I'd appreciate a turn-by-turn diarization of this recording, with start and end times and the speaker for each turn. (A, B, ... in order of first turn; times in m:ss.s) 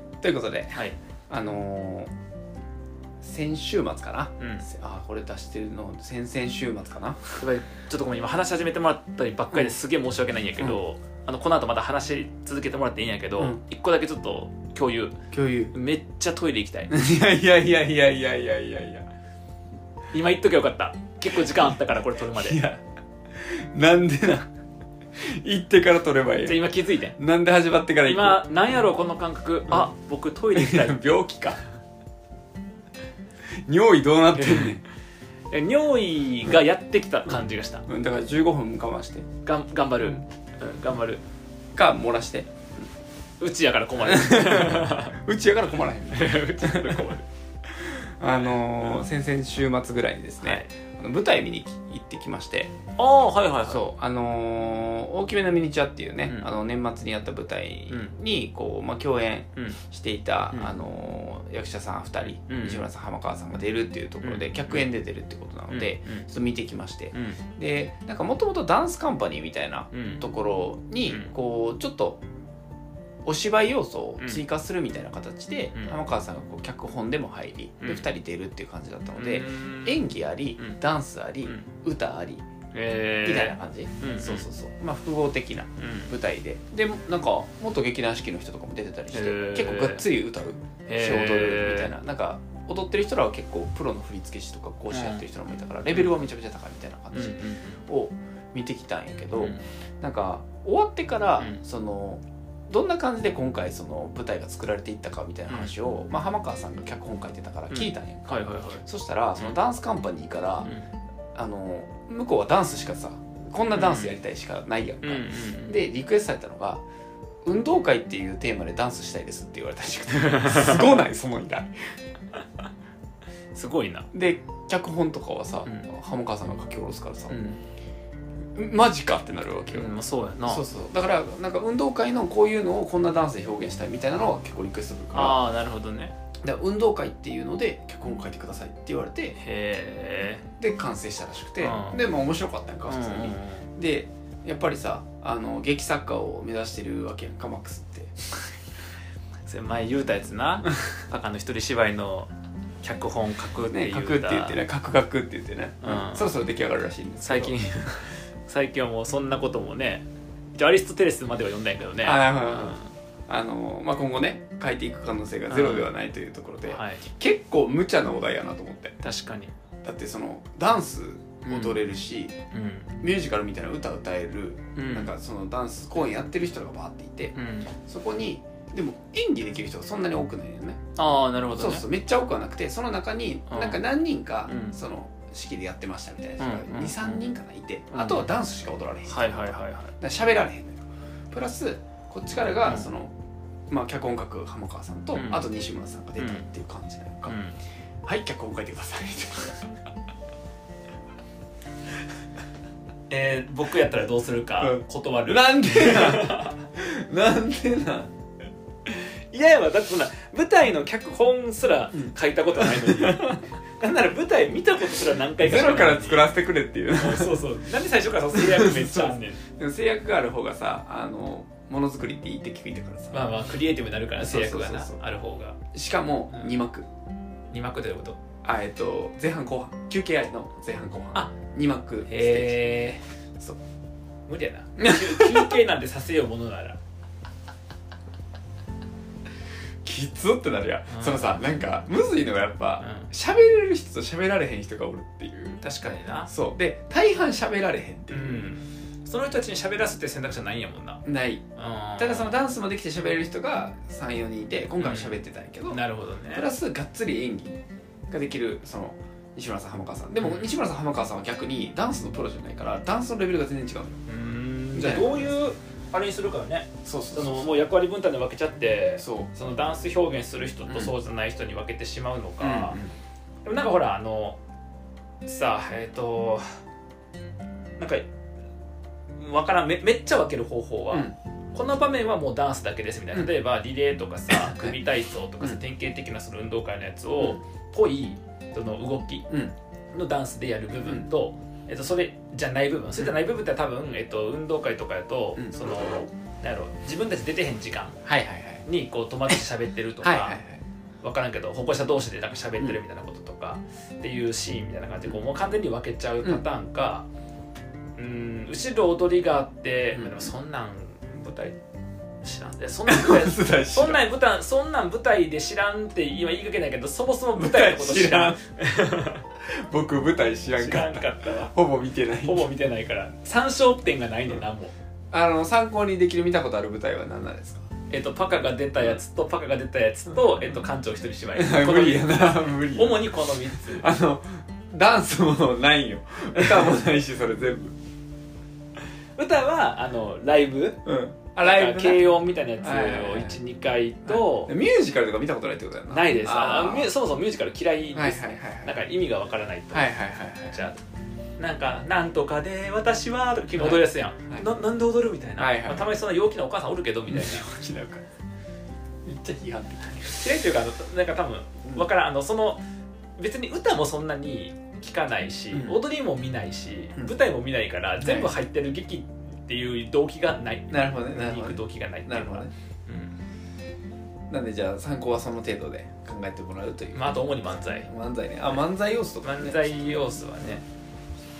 0:00.2-0:02.1 A
0:03.2-0:07.5 A
0:04.4-0:04.6 B
0:07.4-0:15.2 B
0:15.3-0:15.7 A
0:15.7-0:16.9 B
0:16.9-0:19.1 A
0:20.1-0:22.7 B
0:21.4-0:21.8 A
0:22.3-0:22.8 A
0:23.4-0:24.5 A
0:25.2-0:26.6 A
0:26.4-0:27.2 B
0:27.2-0:28.5 A
0:28.0-0:31.0 B
0:30.5-0:31.6 A
0:33.7-0:34.8 A
0:34.3-0:34.8 B
0:35.5-0:37.9 B
0:37.9-0:39.3 A
0:39.4-0:41.2 B
0:41.8-0:42.5 A
0:43.4-0:45.2 B
0:44.0-0:47.2 A
0:46.1-0:47.3 B
0:47.7-0:52.7 A
0:48.3-0:49.0 B
0:50.4-0:50.7 B
0:53.0-0:53.8 B
0:53.6-1:12.2 A
0:57.9-0:58.1 B
1:02.2-1:02.8 B
1:04.2-1:04.9 B
1:05.7-1:06.2 B
1:07.1-1:07.4 B
1:09.9-1:10.2 B
1:13.2-1:22.4 A
1:17.8-1:18.1 B
1:19.1-1:20.0 B
1:22.7-1:24.4 B
1:23.2-1:50.7 A
1:25.8-1:26.1 B
1:29.1-1:30.0 B
1:30.9-1:31.9 B
1:34.9-1:35.2 B
1:37.1-1:37.8 B
1:39.3-1:39.6 B
1:45.5-1:45.7 B
1:47.7-1:48.8 B
1:51.4-1:56.8 A
1:53.7-1:54.2 B
1:55.0-1:55.8 B
1:57.4-2:01.7 A
2:00.1-2:01.0 B
2:03.5-2:04.1 B
2:04.1-2:07.5 A
2:07.3-2:07.6 B
2:08.6-2:15.4 A
2:09.7-2:10.7 B
2:15.1-2:16.1 B
2:16.4-2:19.4 A
2:19.4-2:20.5 B
2:20.6-2:28.1 A
2:21.6-2:22.0 B
2:22.8-2:23.7 B
2:29.5-2:32.3 B
2:32.8-2:34.6 B
2:33.7-2:37.6 A
2:35.8-2:36.3 B
2:37.2-2:42.9 B
2:42.0-2:49.0 A
2:45.5-2:45.9 B
2:46.7-2:47.0 B
2:49.0-2:49.5 B
2:49.8-2:52.3 A
2:51.4-2:51.8 B
2:52.5-2:53.0 B
2:53.0-3:00.8 A
2:54.7-2:55.1 B
2:57.3-2:57.7 B
3:01.0-3:01.8 B
3:01.5-3:13.1 A
3:03.5-3:03.8 B
3:04.4-3:04.7 B
3:06.4-3:07.2 B
3:07.9-3:08.3 B
3:09.0-3:09.9 B
3:12.6-3:12.9 B
3:13.7-3:17.4 A
3:15.1-3:15.4 B
3:16.2-3:16.4 B
3:17.3-3:17.6 B
3:18.0-3:19.7 A
3:23.1-3:26.6 B
3:24.6-3:28.1 A
3:28.9-3:36.3 B
3:31.9-3:33.4 A
3:35.4-3:37.5 A
3:36.9-3:39.4 B
3:38.3-3:43.3 A
3:43.1-3:45.6 B
3:44.2-3:45.0 A
3:45.7-3:46.8 A
3:47.5-3:48.2 B
3:48.4-3:52.8 A
3:52.1-3:53.0 B
3:54.3-3:56.8 B
3:54.8-3:55.6 A
3:59.8-4:05.6 A
4:00.9-4:01.6 B
4:02.8-4:03.1 B
4:05.6-4:06.3 B
4:06.2-4:08.5 A
4:08.1-4:11.0 B
4:11.0-4:11.4 A
4:11.6-4:12.4 B
4:12.0-4:24.0 A
4:14.8-4:16.5 B
4:20.2-4:20.5 B
4:24.1-4:32.8 B
4:24.7-4:25.4 A
4:26.8-4:27.6 A
4:29.0-4:29.3 A
4:30.7-4:30.9 A
4:32.4-4:32.9 A
4:33.4-4:34.4 B
4:35.2-4:36.4 B
4:37.8-4:38.0 B
4:39.2-4:49.4 B
4:40.9-4:41.2 A
4:44.3-4:44.8 A
4:49.9-4:58.0 B
4:50.8-4:51.1 A
4:55.4-4:55.7 A
4:58.0-4:58.6 A
4:58.6-5:00.4 B
5:00.0-5:00.6 A
5:01.0-5:07.1 B
5:08.0-5:11.6 B
5:09.9-5:10.3 A
5:12.2-5:19.2 B
5:12.8-5:14.0 A
5:17.4-5:18.4 A
5:19.4-5:22.5 A
5:20.6-5:21.6 B
5:22.2-5:24.7 B
5:25.1-5:27.6 A
5:27.9-5:33.9 B
5:31.3-5:37.8 A
5:36.4-5:36.7 B
5:39.2-5:40.8 B
5:40.8-5:43.4 A
5:41.4-5:44.5 B
5:44.0-5:46.9 A
5:45.9-5:50.8 B
5:47.9-5:48.8 A
5:49.7-5:50.6 A
5:51.4-5:57.5 B
5:53.6-5:54.5 A
5:55.4-5:56.0 A
5:57.1-5:58.0 A
5:59.0-6:00.4 A
6:00.2-6:02.6 B
6:03.2-6:13.2 B
6:05.5-6:05.8 A
6:08.0-6:08.3 A
6:10.7-6:12.5 A
6:14.3-6:20.5 A
6:16.9-6:17.9 B
6:19.2-6:20.6 B